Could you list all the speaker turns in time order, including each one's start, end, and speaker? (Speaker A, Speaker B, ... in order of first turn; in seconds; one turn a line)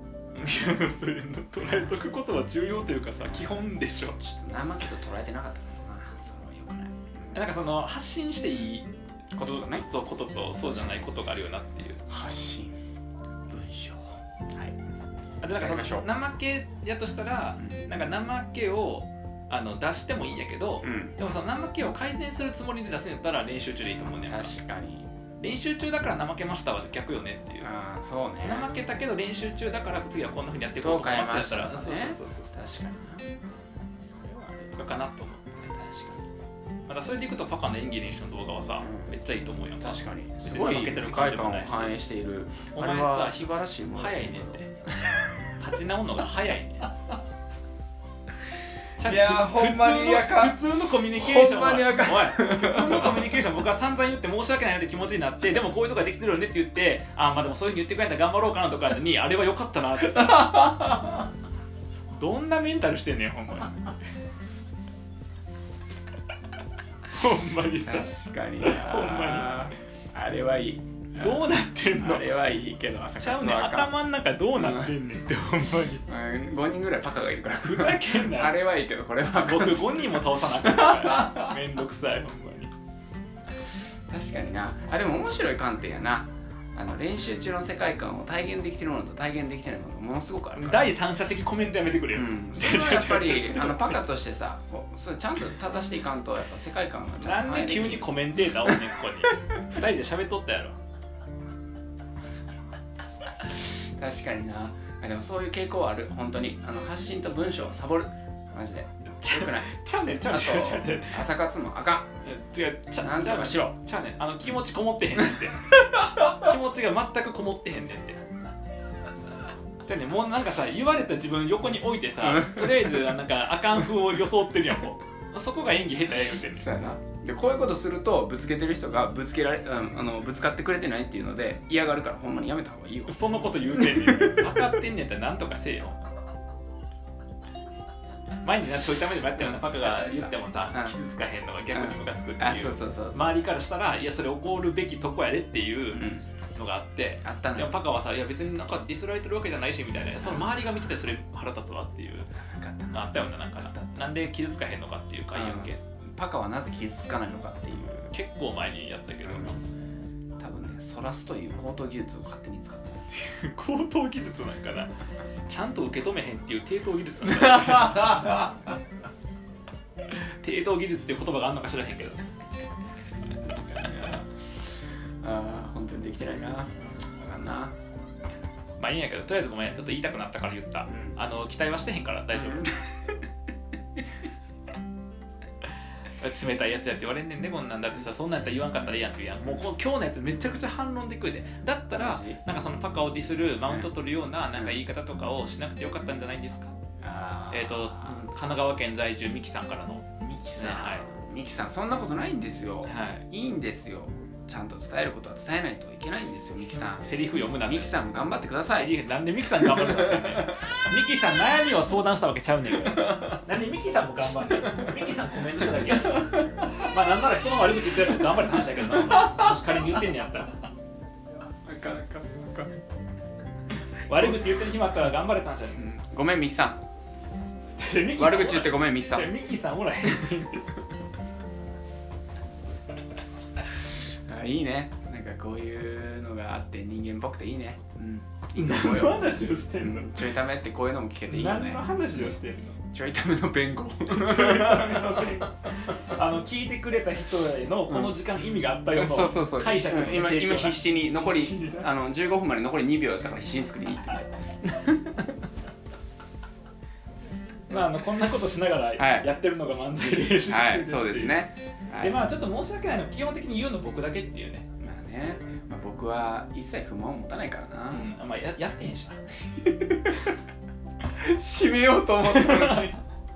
Speaker A: 0.3-4.2
Speaker B: 3.2-3.5
Speaker B: 4.0-7.4
Speaker A: 7.3-12.0
Speaker B: 9.3-9.9
Speaker B: 10.6-11.1
Speaker B: 12.1-12.7
Speaker B: 13.5-14.8
Speaker A: 15.4-24.6
Speaker B: 15.5-16.1
Speaker B: 17.6-17.9
Speaker B: 20.8-21.2
Speaker B: 24.3-25.1
Speaker A: 25.4-27.7
Speaker B: 27.6-28.7
Speaker A: 28.4-32.5
Speaker B: 30.8-33.4
Speaker B: 34.0-35.1
Speaker A: 34.8-35.6
Speaker B: 35.6-36.2
Speaker A: 36.9-42.0
Speaker B: 38.8-39.1
Speaker B: 39.8-45.2
Speaker A: 42.7-44.7
Speaker A: 45.5-46.9
Speaker A: 49.0-61.2
Speaker B: 49.0-53.4
Speaker B: 60.3-61.0
Speaker A: 62.1-63.8
Speaker A: 67.1-69.7
Speaker B: 67.8-74.0
Speaker A: 71.2-72.3
Speaker A: 73.2-76.0
Speaker B: 74.5-74.9
Speaker B: 76.0-81.6
Speaker A: 77.6-78.6
Speaker A: 79.4-82.7
Speaker B: 84.1-90.9
Speaker A: 90.6-94.0
Speaker B: 92.1-98.8
Speaker A: 97.2-100.8
Speaker B: 104.0-109.7
Speaker A: 109.2-111.3
Speaker B: 110.2-112.1
Speaker A: 112.2-118.2
Speaker B: 113.0-113.7
Speaker A: 119.8-126.7
Speaker B: 122.2-123.1
Speaker B: 126.5-134.5
Speaker A: 133.1-136.0
Speaker A: 138.4-152.3
Speaker B: 139.4-140.9
Speaker B: 141.7-143.3
Speaker B: 145.9-146.2
Speaker B: 147.2-147.7
Speaker B: 150.2-150.6
Speaker B: 152.5-154.0
Speaker A: 152.9-155.8
Speaker B: 155.3-158.1
Speaker A: 158.1-159.6
Speaker B: 159.2-159.5
Speaker B: 160.4-163.0
Speaker A: 163.2-164.9
Speaker A: 165.4-168.5
Speaker B: 167.3-168.5
Speaker A: 170.2-172.2
Speaker B: 173.6-174.2
Speaker A: 173.6-174.2
Speaker B: 175.2-177.7
Speaker A: 178.8-182.8
Speaker B: 182.3-182.7
Speaker A: 186.2-196.8
Speaker B: 191.9-192.4
Speaker B: 194.5-194.8
Speaker B: 197.0-198.2
Speaker A: 197.5-201.1
Speaker B: 200.2-208.9
Speaker A: 202.8-203.2
Speaker A: 207.0-208.0
Speaker A: 208.7-220.5
Speaker B: 209.6-210.6
Speaker B: 212.8-213.3
Speaker B: 221.7-222.7
Speaker A: 224.1-225.8
Speaker B: 225.8-226.8
Speaker A: 227.8-230.8
Speaker B: 228.1-229.3
Speaker B: 234.3-242.4
Speaker A: 238.5-240.3
Speaker A: 241.3-242.8
Speaker B: 242.9-245.5
Speaker A: 244.1-251.9
Speaker B: 247.9-248.2
Speaker B: 248.9-255.2
Speaker A: 257.7-261.5
Speaker B: 259.0-259.3
Speaker B: 260.1-262.2
Speaker A: 262.0-264.7
Speaker B: 264.8-268.1
Speaker A: 267.9-269.2
Speaker B: 269.6-270.2
Speaker B: 271.1-273.0
Speaker A: 272.2-272.9